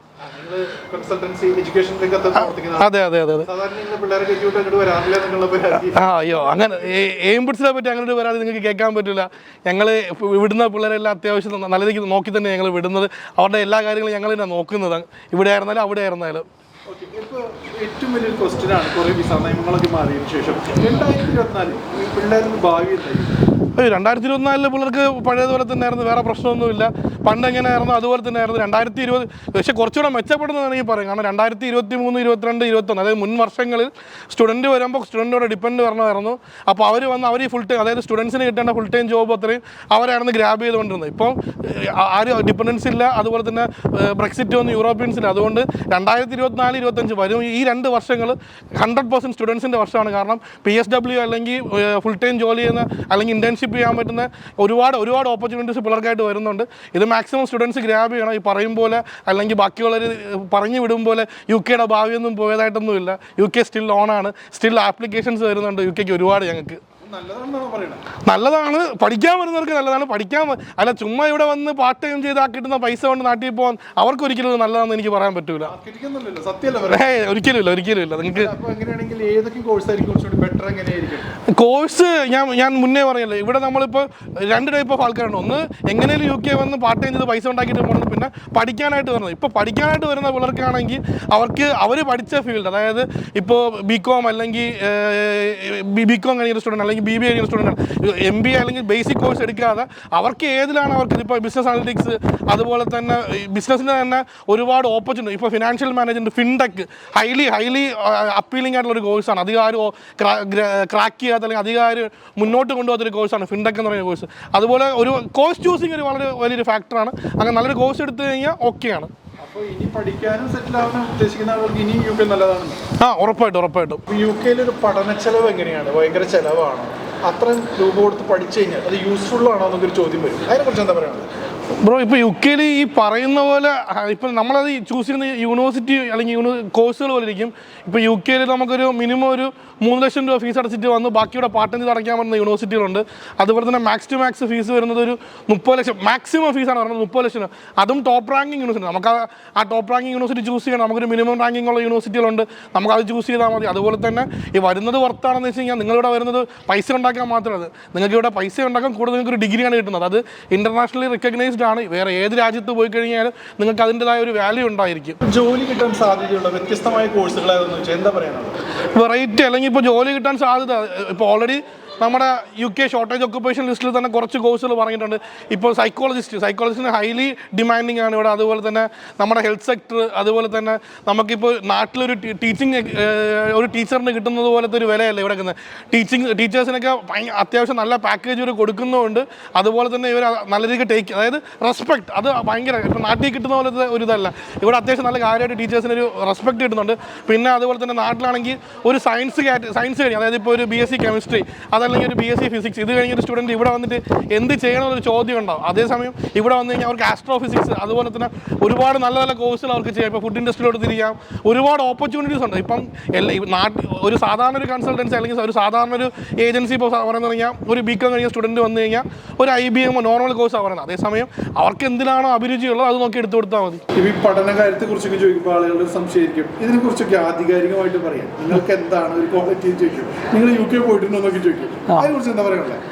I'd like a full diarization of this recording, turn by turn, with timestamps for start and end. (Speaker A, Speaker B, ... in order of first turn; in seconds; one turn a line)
Speaker A: 0.2-2.9
Speaker B: 2.8-3.5
Speaker A: 3.5-6.1
Speaker B: 5.9-16.5
Speaker A: 16.9-23.4
Speaker B: 23.8-66.8
Speaker A: 67.0-68.1
Speaker B: 68.2-75.7
Speaker A: 75.6-77.1
Speaker B: 76.9-78.5
Speaker A: 78.3-81.3
Speaker B: 81.5-119.1
Speaker A: 119.4-122.8
Speaker B: 123.0-124.0
Speaker A: 124.1-131.3
Speaker B: 131.8-165.2
Speaker A: 165.2-168.6
Speaker B: 168.9-223.8
Speaker A: 223.9-232.8